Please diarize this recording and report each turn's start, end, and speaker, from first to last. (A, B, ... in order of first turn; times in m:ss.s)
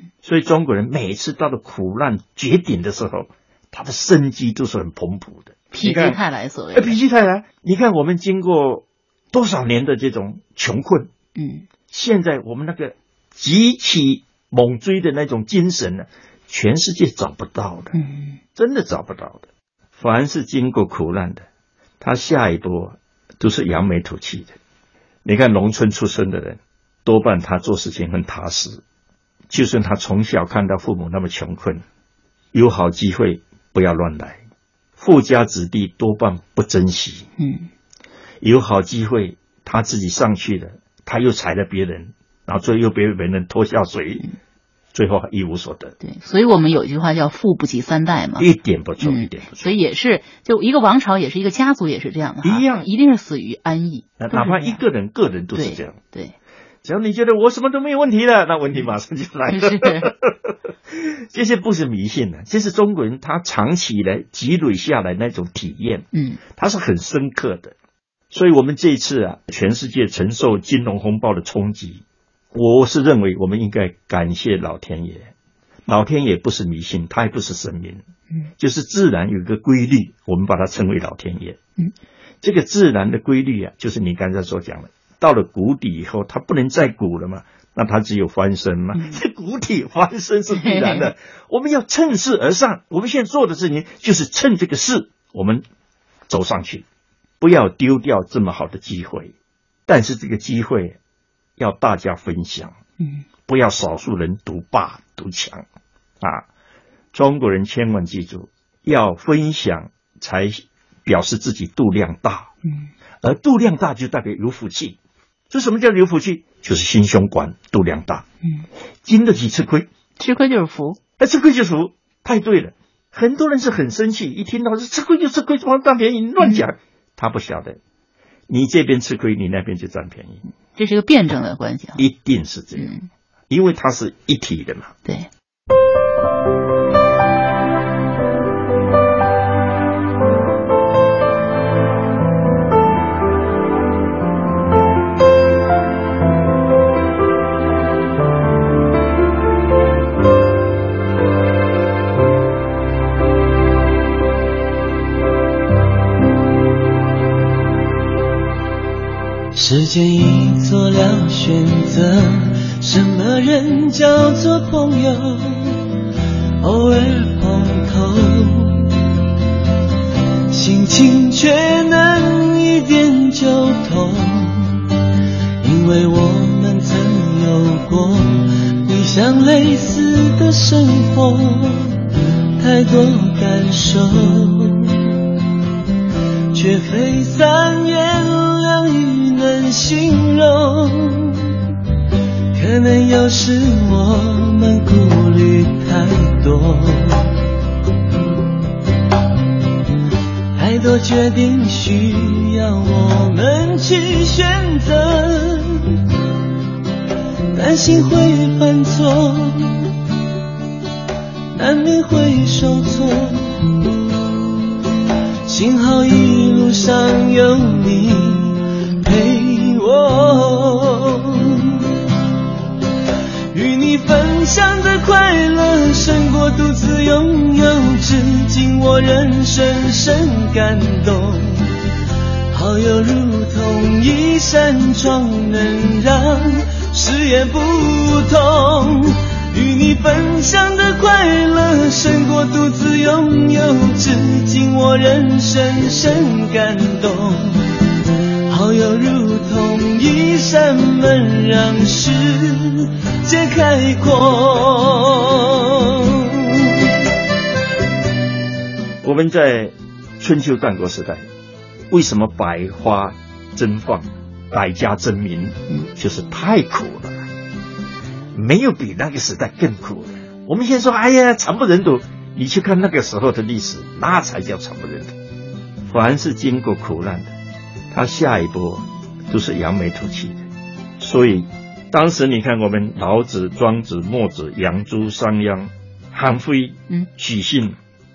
0:00.2-0:06.2 A
0:05.7-0:07.0 B
0:06.7-0:11.1 A
0:11.4-0:11.6 B
0:11.9-0:17.9 A
0:17.9-0:18.4 B
0:18.6-0:21.4 A
0:22.0-0:24.6 A
0:25.2-0:28.8 A
0:29.5-0:31.8 A
0:32.5-0:34.4 A
0:35.0-0:37.3 A
0:37.4-0:37.7 B
0:38.4-0:44.3 A
0:44.9-0:46.0 A
0:46.0-0:48.5 B
0:48.4-0:49.7 A
0:49.0-0:54.8 B
0:52.4-0:52.9 A
0:54.2-0:56.0 A
0:55.6-0:56.4 B
0:56.8-1:07.7 A
0:59.5-1:00.1 B
1:06.1-1:06.4 B
1:08.3-1:15.3 A
1:15.9-1:18.0 A
1:18.6-1:21.6 A
1:22.4-1:35.6 A
1:30.6-1:31.1 B
1:36.3-1:36.8 A
1:37.4-1:39.4 A
1:39.9-1:41.0 A
1:41.6-1:42.8 A
1:43.5-1:45.6 A
1:46.2-1:46.5 A
1:47.1-1:52.5 A
1:53.2-1:55.0 A
1:55.5-1:58.2 A
1:59.0-1:59.9 A
2:00.2-2:01.0 B
2:01.2-2:07.8 A
2:06.4-2:06.7 B
2:08.5-2:10.4 A
2:10.8-2:12.0 B
2:12.0-2:13.0 A
2:12.8-2:13.0 B
2:13.5-2:14.9 A
2:39.5-2:45.9 C
2:46.6-2:48.9 C
2:50.5-2:54.9 C
2:55.6-3:02.1 C
3:02.6-3:05.2 C
3:06.5-3:11.6 C
3:12.5-3:17.3 C
3:20.6-3:26.0 C
3:27.5-3:29.9 C
3:31.5-3:33.9 C
3:35.5-3:41.9 C
3:43.5-3:51.7 C
3:52.5-4:07.8 C
4:08.5-4:16.7 C
4:19.0-4:21.2 A
4:21.9-4:27.2 A
4:28.3-4:35.1 A
4:35.9-4:37.3 A
4:37.9-4:40.4 A
4:41.0-4:47.8 A